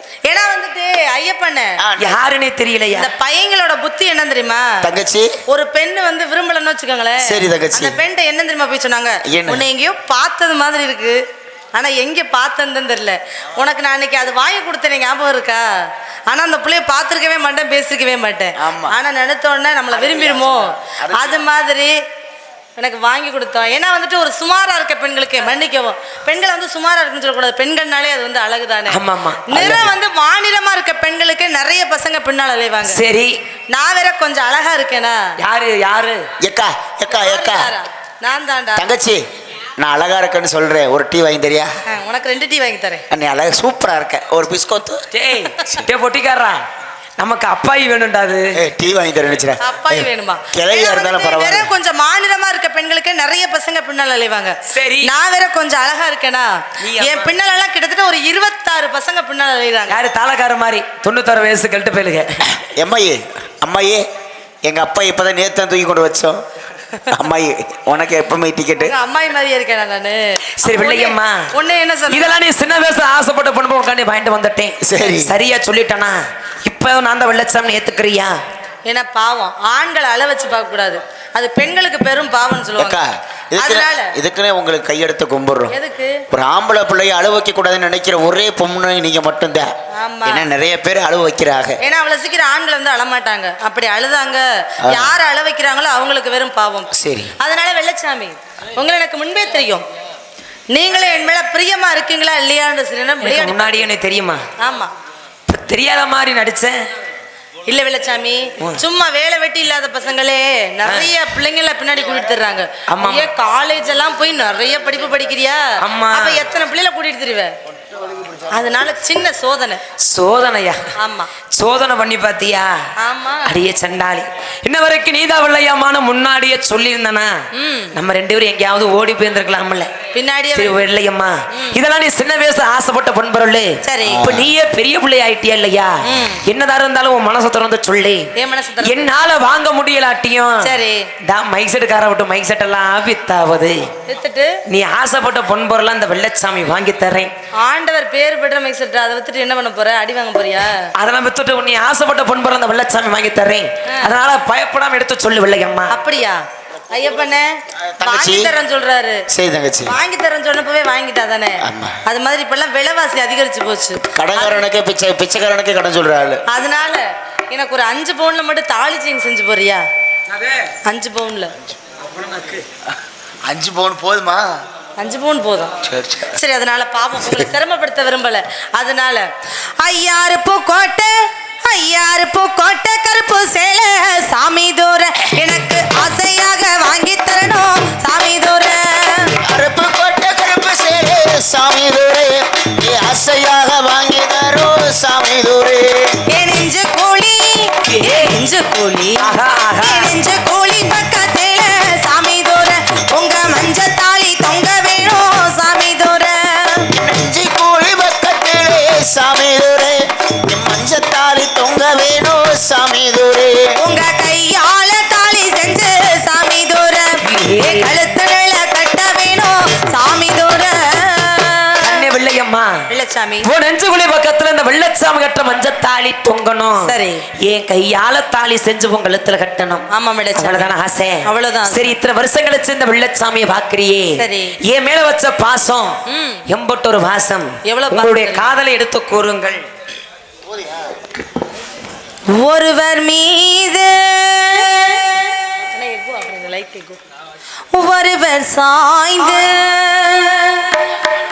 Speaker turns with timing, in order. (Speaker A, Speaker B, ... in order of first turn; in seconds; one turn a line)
Speaker A: 0.3-1.8
Speaker B: 1.8-2.2
Speaker C: 2.0-3.1
Speaker A: 2.9-4.8
Speaker B: 4.8-5.3
Speaker A: 5.5-11.2
Speaker B: 7.2-8.0
Speaker B: 9.2-9.7
Speaker A: 11.7-15.7
Speaker A: 16.3-21.9
Speaker B: 18.6-19.0
Speaker B: 19.9-21.4
Speaker A: 22.8-33.0
Speaker C: 28.9-29.7
Speaker B: 29.5-29.9
Speaker C: 32.8-33.3
Speaker A: 33.7-35.2
Speaker C: 35.4-36.2
Speaker B: 36.4-37.7
Speaker A: 37.1-38.9
Speaker B: 38.8-39.2
Speaker B: 39.8-41.7
Speaker A: 41.9-43.0
Speaker B: 43.1-45.0
Speaker C: 45.1-46.6
Speaker C: 47.2-48.5
Speaker B: 48.6-51.7
Speaker A: 49.6-60.0
Speaker C: 54.7-55.1
Speaker C: 56.8-57.3
Speaker C: 59.9-62.4
Speaker B: 62.5-64.0
Speaker B: 64.6-66.4
Speaker B: 67.1-68.9
Speaker A: 68.8-72.4
Speaker C: 70.6-71.4
Speaker C: 72.1-78.3
Speaker B: 74.8-75.4
Speaker A: 78.8-83.0
Speaker B: 82.8-85.7
Speaker A: 83.6-84.1
Speaker A: 85.7-86.2
Speaker B: 86.3-89.7
Speaker A: 90.0-90.5
Speaker B: 90.2-91.8
Speaker A: 91.8-99.8
Speaker B: 94.8-95.1
Speaker B: 96.9-97.3
Speaker A: 100.7-103.8
Speaker C: 103.2-104.4
Speaker A: 104.6-104.9
Speaker C: 105.5-106.7
Speaker A: 107.7-117.5
Speaker C: 110.8-111.1
Speaker C: 112.9-113.3
Speaker C: 115.8-116.5
Speaker B: 118.1-118.4
Speaker A: 118.5-119.8
Speaker C: 120.0-120.8
Speaker A: 121.0-121.3
Speaker C: 121.5-122.7
Speaker A: 123.0-123.5
Speaker C: 123.5-127.3
Speaker A: 127.5-128.0
Speaker C: 127.9-129.9
Speaker A: 130.1-130.8
Speaker C: 130.5-133.7
Speaker A: 133.8-134.2
Speaker B: 134.1-134.5
Speaker C: 134.2-135.9
Speaker A: 136.0-136.4
Speaker C: 136.4-138.2
Speaker A: 138.3-139.1
Speaker C: 138.8-140.7
Speaker A: 140.6-141.1
Speaker C: 141.3-143.8
Speaker A: 144.1-144.6
Speaker C: 144.7-147.3
Speaker A: 147.6-150.9
Speaker C: 151.0-156.0
Speaker A: 155.9-159.2
Speaker B: 157.9-158.5
Speaker B: 159.3-159.9
Speaker A: 159.8-164.6
Speaker B: 161.6-162.0
Speaker B: 164.0-166.4
Speaker A: 166.5-169.8
Speaker C: 170.3-170.7
Speaker A: 170.8-171.5
Speaker C: 172.0-172.6
Speaker B: 173.4-174.4
Speaker A: 175.0-175.7
Speaker B: 175.8-176.3
Speaker A: 176.3-179.3
Speaker A: 179.8-189.3
Speaker B: 189.5-196.1
Speaker A: 196.3-199.3
Speaker C: 197.9-198.3
Speaker C: 199.2-200.1
Speaker A: 199.8-206.9
Speaker B: 206.9-213.6
Speaker A: 213.8-222.0
Speaker C: 217.2-217.9
Speaker C: 221.8-222.7
Speaker A: 222.9-223.5
Speaker C: 223.4-226.9
Speaker A: 226.8-227.2
Speaker C: 227.4-235.9
Speaker A: 229.9-232.0
Speaker A: 234.2-234.6
Speaker A: 236.1-236.4
Speaker C: 236.5-239.6
Speaker A: 237.7-238.5
Speaker A: 242.3-247.0
Speaker A: 247.7-251.0